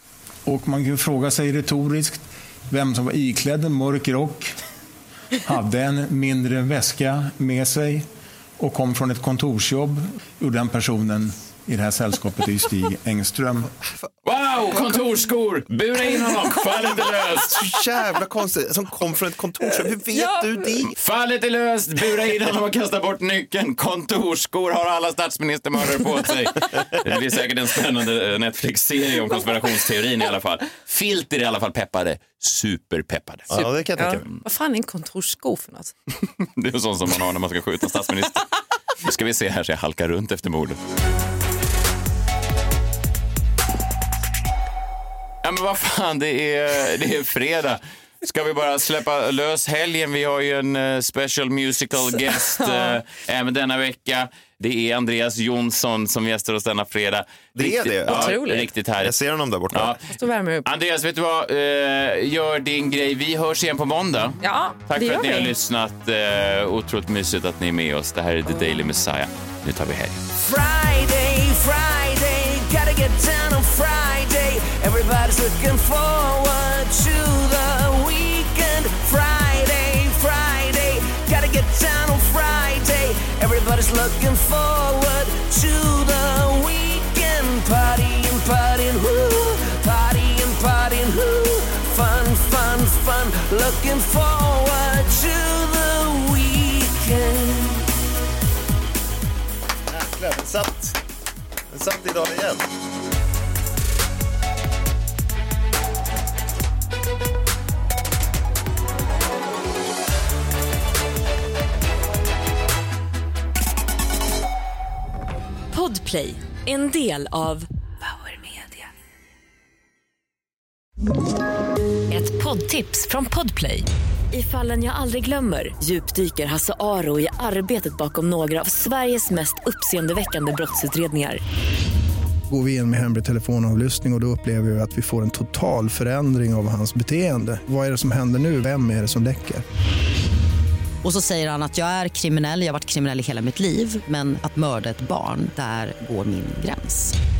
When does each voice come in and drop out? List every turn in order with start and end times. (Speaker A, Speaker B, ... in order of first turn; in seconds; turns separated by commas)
Speaker A: 0.5-4.5, Speaker A: 5.4-8.1, Speaker A: 8.6-13.7, Speaker B: 14.2-17.6, Speaker C: 17.4-20.9, Speaker D: 20.1-20.8, Speaker B: 20.9-33.6, Speaker C: 33.5-34.3, Speaker D: 33.5-35.9, Speaker B: 36.4-38.5, Speaker B: 39.0-40.8, Speaker B: 45.4-59.1, Speaker C: 57.5-58.4, Speaker D: 58.1-58.7, Speaker C: 59.0-60.0, Speaker B: 59.7-60.0, Speaker D: 60.1-60.7, Speaker B: 60.6-70.2, Speaker D: 64.4-65.5, Speaker E: 70.4-97.8, Speaker C: 99.9-101.0, Speaker C: 101.7-102.7, Speaker F: 115.7-117.7, Speaker F: 122.1-131.4, Speaker G: 132.5-139.6, Speaker H: 141.0-147.1